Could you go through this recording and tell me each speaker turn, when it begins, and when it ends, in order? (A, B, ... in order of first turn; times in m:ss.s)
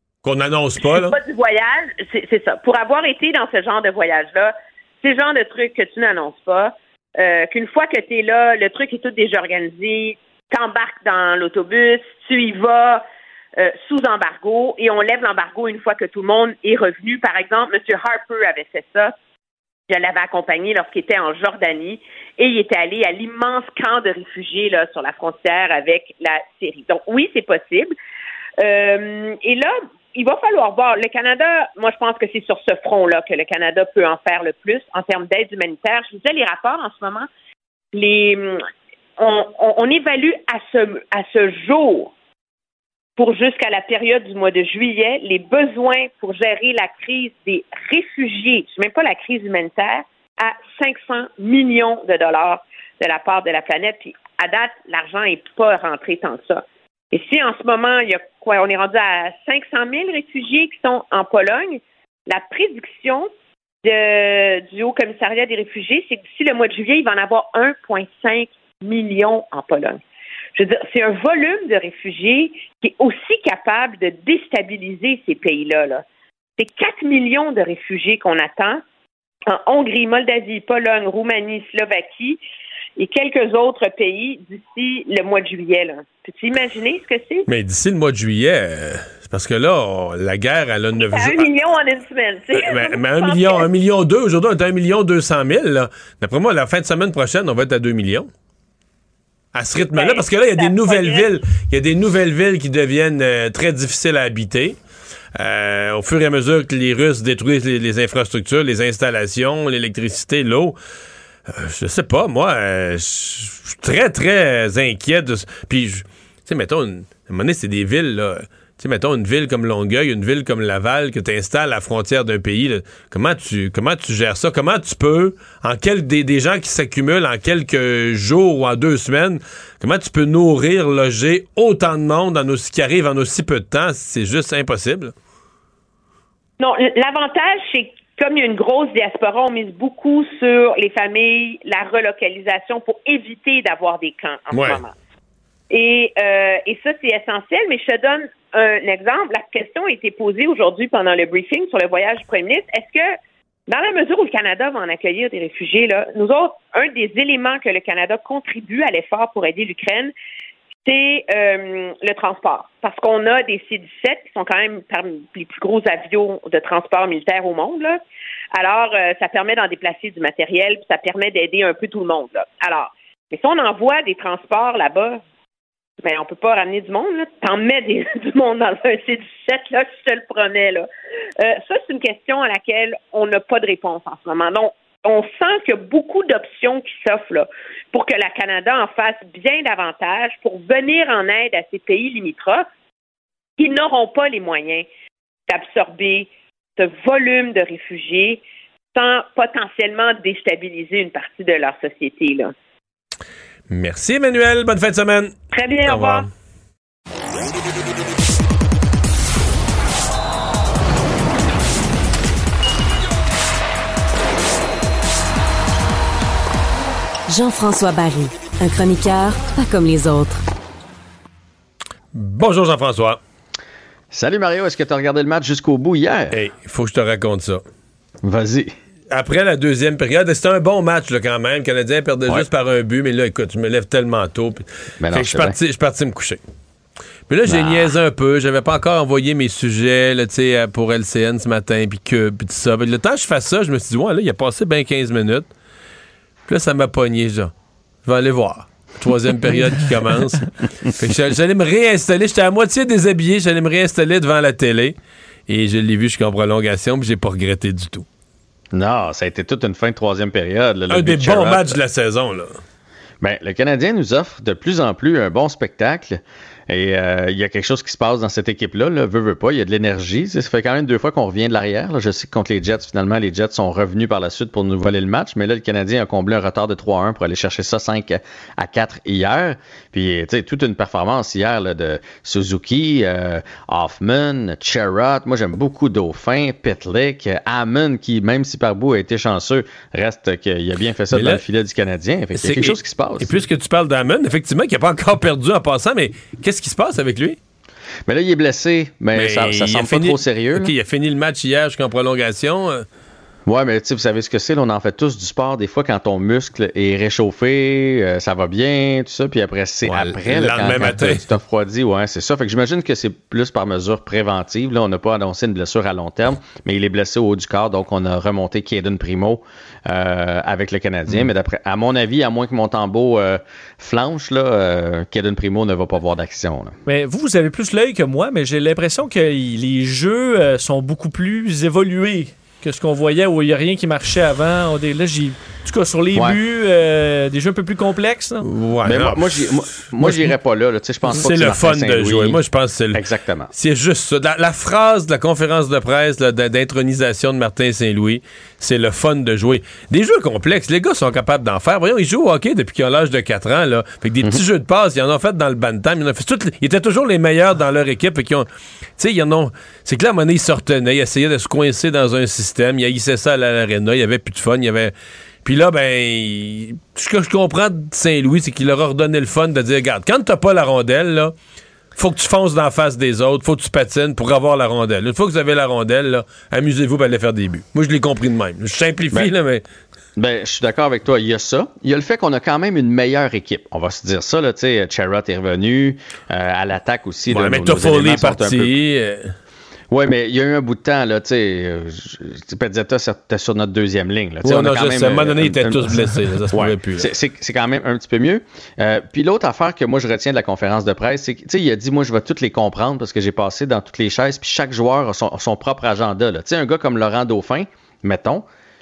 0:00.2-0:01.2 A
0:00.9-0:13.0 B
0:13.6-0:19.1 B
0:19.9-0:27.9 B
0:28.6-0:37.3 B
0:37.9-0:38.6 B
0:39.2-0:42.1 B
0:43.2-1:03.3 B
1:03.8-1:10.0 B
1:10.6-1:16.0 B
1:16.6-1:18.8 B
1:19.5-1:22.4 B
1:23.0-1:27.5 B
1:27.5-1:31.5 A
1:31.0-1:33.7 B
1:32.5-1:38.3 A
1:39.5-1:44.8 A
1:39.9-1:41.3 B
1:45.4-1:50.8 A
1:51.5-2:15.1 A
2:16.6-2:25.0 B
2:24.5-2:24.8 A
2:25.7-2:33.1 B
2:33.7-2:40.1 B
2:40.8-2:48.0 B
2:48.5-2:55.2 B
2:56.0-3:00.9 B
3:01.4-3:12.7 B
3:13.6-3:14.8 B
3:15.5-3:18.4 B
3:18.9-3:22.5 B
3:23.7-3:25.3 A
3:25.5-3:26.3 B
3:25.9-3:26.3 A
3:37.3-3:40.4 C
3:42.1-3:43.2 A
3:44.1-3:46.4 D
3:46.3-3:47.6 A
3:48.2-3:48.7 D
3:49.1-3:56.4 A
3:55.0-3:55.6 D
3:57.3-4:05.5 A
3:57.5-3:57.8 D
4:06.5-4:07.5 A
4:08.0-4:15.0 A
4:15.5-4:18.1 A
4:18.7-4:21.8 D
4:20.9-4:22.5 A
4:23.2-4:53.4 D
4:51.1-4:51.4 A
4:52.4-4:57.4 A
4:58.1-5:00.7 D
4:59.2-5:02.9 A
5:03.5-5:26.7 D
5:09.9-5:11.3 A
5:26.9-5:38.5 E
5:38.4-5:39.4 A
5:38.8-5:42.4 D
5:40.0-5:40.3 A
5:41.1-5:43.0 A
5:42.9-5:43.5 D
5:43.5-5:58.5 A
5:59.0-6:11.3 A
6:12.0-6:19.6 A
6:20.2-6:28.7 D
6:27.3-6:29.3 A
6:29.9-6:48.4 D
6:34.4-6:37.1 A